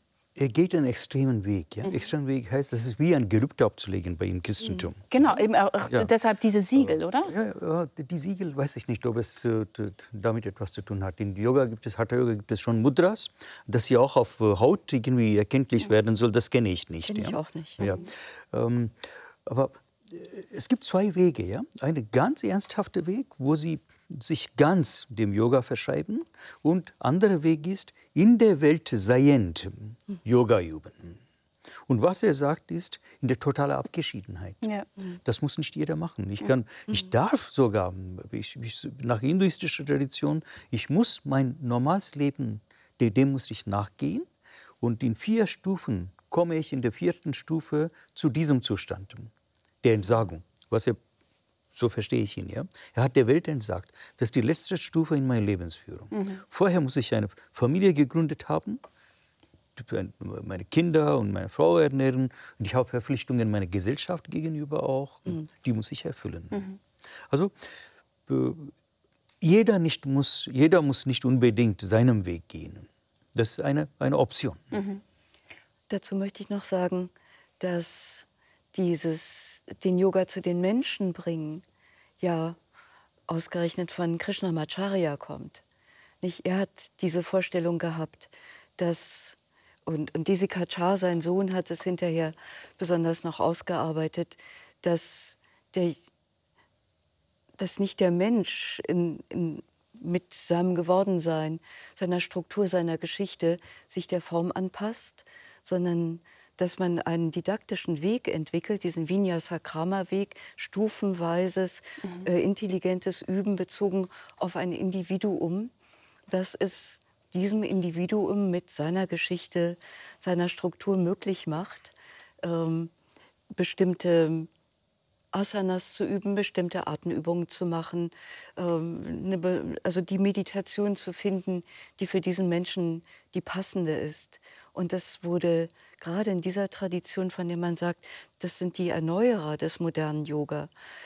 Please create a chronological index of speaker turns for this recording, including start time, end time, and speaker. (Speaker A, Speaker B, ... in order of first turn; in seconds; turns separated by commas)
Speaker A: 0.3-5.1, Speaker B: 5.1-7.3, Speaker A: 7.2-31.2, Speaker C: 17.1-18.0, Speaker A: 31.9-34.6, Speaker B: 34.6-34.9, Speaker A: 35.1-44.3, Speaker A: 44.8-49.3, Speaker A: 49.8-51.0, Speaker A: 51.7-58.8, Speaker A: 59.8-66.7, Speaker A: 67.3-67.5, Speaker A: 68.3-68.7, Speaker A: 69.4-74.7, Speaker B: 74.7-75.0, Speaker C: 75.9-81.6, Speaker C: 82.2-82.6, Speaker C: 83.3-85.6, Speaker C: 86.2-96.1, Speaker C: 97.6-115.7, Speaker C: 116.3-122.9, Speaker C: 123.5-124.5, Speaker C: 125.3-140.7